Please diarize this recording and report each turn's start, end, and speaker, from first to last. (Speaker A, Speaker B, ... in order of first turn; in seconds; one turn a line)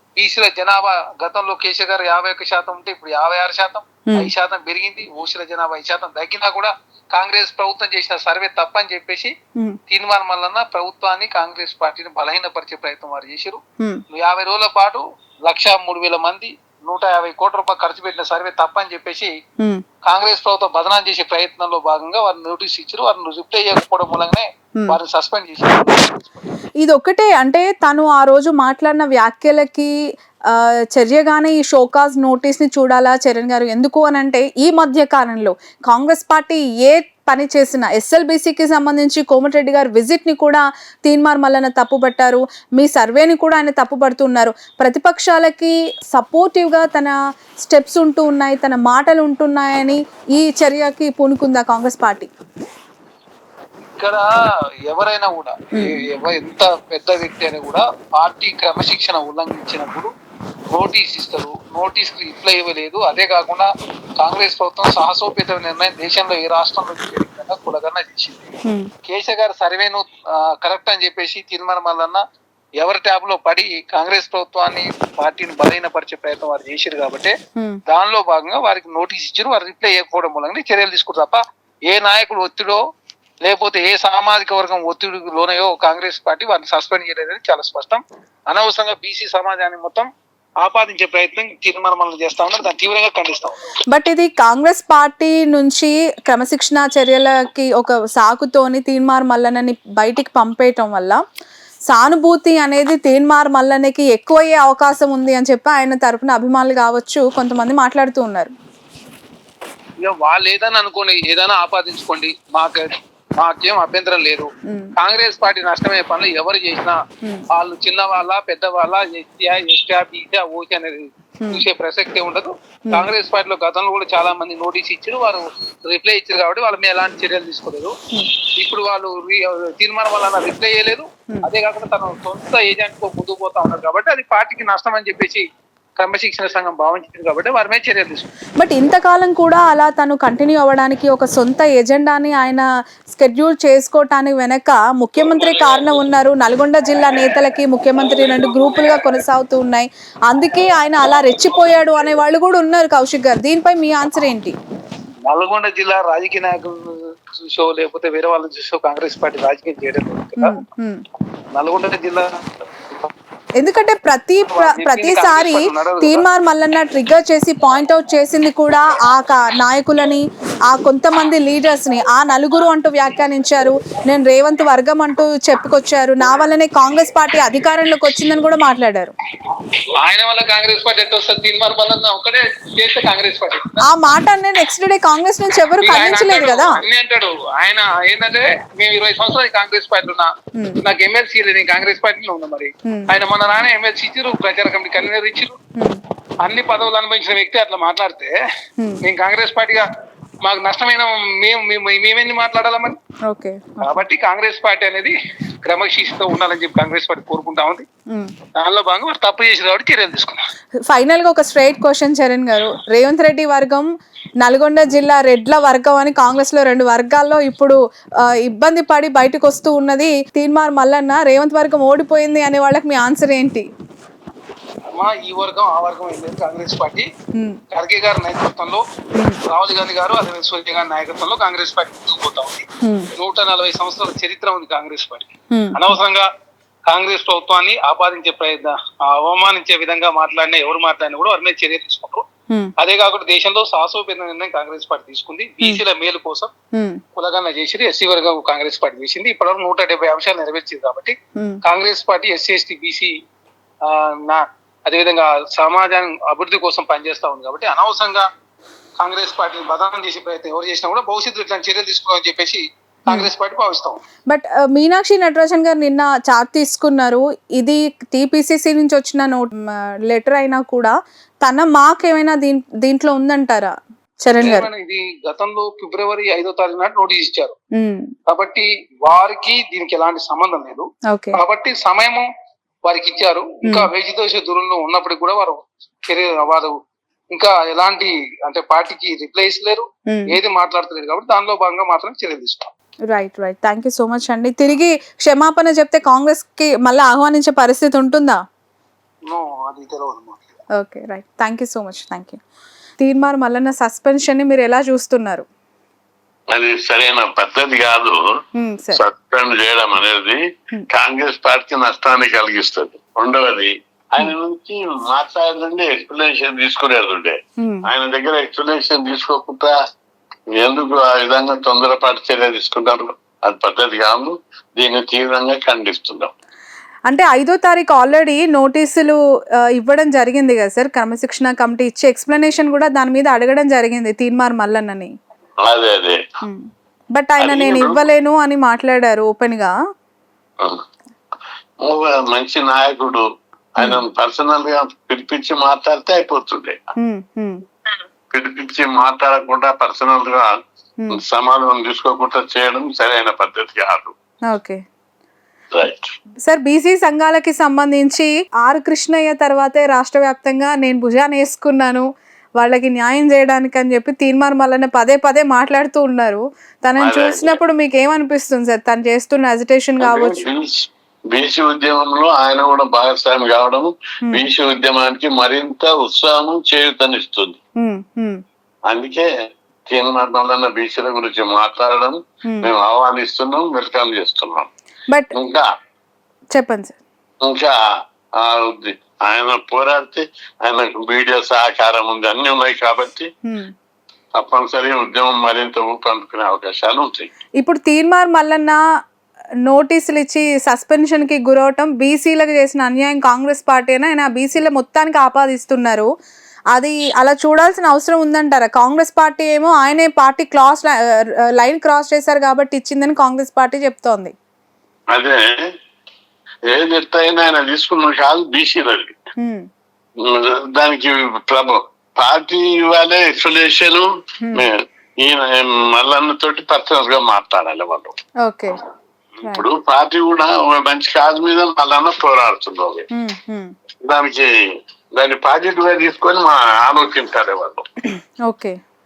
Speaker A: 0.2-9.3
Speaker A: 9.9-13.6
Speaker A: 14.1-19.3
Speaker A: 20.1-26.2
Speaker B: 26.8-29.9
Speaker B: 30.5-52.3
Speaker A: 54.0-54.2
Speaker A: 54.9-60.1
Speaker A: 60.7-68.5
Speaker B: 68.6-68.9
Speaker A: 69.0-72.2
Speaker A: 72.8-77.3
Speaker B: 77.5-77.8
Speaker A: 77.9-82.8
Speaker A: 83.4-90.1
Speaker A: 90.6-93.7
Speaker B: 93.9-101.2
Speaker B: 101.9-108.5
Speaker A: 110.0-117.0
Speaker B: 114.7-114.9
Speaker A: 117.5-128.0
Speaker A: 128.5-135.4
Speaker A: 136.0-138.3
Speaker B: 138.6-154.6
Speaker A: 148.2-148.9
Speaker A: 155.3-160.6
Speaker B: 160.4-161.0
Speaker A: 161.5-162.3
Speaker B: 163.6-179.1
Speaker A: 164.5-166.2
Speaker A: 180.0-183.8
Speaker B: 183.8-186.8
Speaker A: 185.8-190.3
Speaker B: 190.5-190.8
Speaker A: 190.8-195.6
Speaker A: 196.4-198.3
Speaker A: 199.0-199.8
Speaker A: 200.4-203.0
Speaker B: 203.3-203.9
Speaker A: 203.8-207.8
Speaker A: 208.6-210.4
Speaker B: 210.9-213.9
Speaker B: 214.4-223.7
Speaker A: 224.9-227.1
Speaker A: 227.7-228.8
Speaker A: 229.4-236.3
Speaker B: 232.8-233.1
Speaker B: 235.5-235.8
Speaker A: 236.9-242.2
Speaker A: 242.8-246.5
Speaker B: 246.7-247.0
Speaker A: 247.2-253.1
Speaker B: 251.3-251.6
Speaker A: 253.8-258.2
Speaker A: 259.0-264.0
Speaker B: 264.3-269.5
Speaker B: 270.1-274.7
Speaker A: 274.4-277.6
Speaker B: 277.8-278.1
Speaker A: 278.3-282.2
Speaker B: 281.1-281.4
Speaker A: 282.9-286.7
Speaker A: 287.3-292.7
Speaker B: 290.1-290.4
Speaker B: 293.1-298.4
Speaker A: 299.3-300.4
Speaker B: 300.8-302.4
Speaker B: 303.0-305.4
Speaker C: 306.5-308.2
Speaker B: 308.6-309.0
Speaker C: 308.9-310.4
Speaker C: 310.9-317.4
Speaker B: 317.6-317.9
Speaker C: 317.9-319.7
Speaker C: 320.6-326.3
Speaker B: 327.1-329.1
Speaker B: 329.8-335.1
Speaker C: 335.7-336.2
Speaker B: 336.4-339.7
Speaker C: 337.4-338.1
Speaker C: 341.8-343.2
Speaker C: 343.8-346.8
Speaker B: 347.0-347.6
Speaker C: 348.3-350.5
Speaker C: 351.1-354.1
Speaker B: 354.5-354.8
Speaker C: 355.7-356.1
Speaker B: 356.4-362.1
Speaker B: 362.6-370.4
Speaker C: 367.0-367.6
Speaker C: 370.0-377.6
Speaker B: 377.8-378.4
Speaker C: 378.9-379.3
Speaker C: 379.9-384.7
Speaker B: 382.4-382.7
Speaker C: 385.3-385.6
Speaker B: 386.5-387.0
Speaker C: 387.4-387.7
Speaker C: 388.4-393.3
Speaker B: 393.4-393.7
Speaker C: 394.4-397.3
Speaker B: 397.6-398.8
Speaker B: 399.6-406.1
Speaker B: 406.7-410.9
Speaker B: 411.6-414.3
Speaker C: 415.1-415.5
Speaker C: 416.7-419.1
Speaker C: 420.2-428.1
Speaker B: 428.4-428.8
Speaker C: 429.4-433.1
Speaker B: 433.1-433.7
Speaker C: 434.0-434.5
Speaker C: 435.1-437.9
Speaker B: 438.5-438.8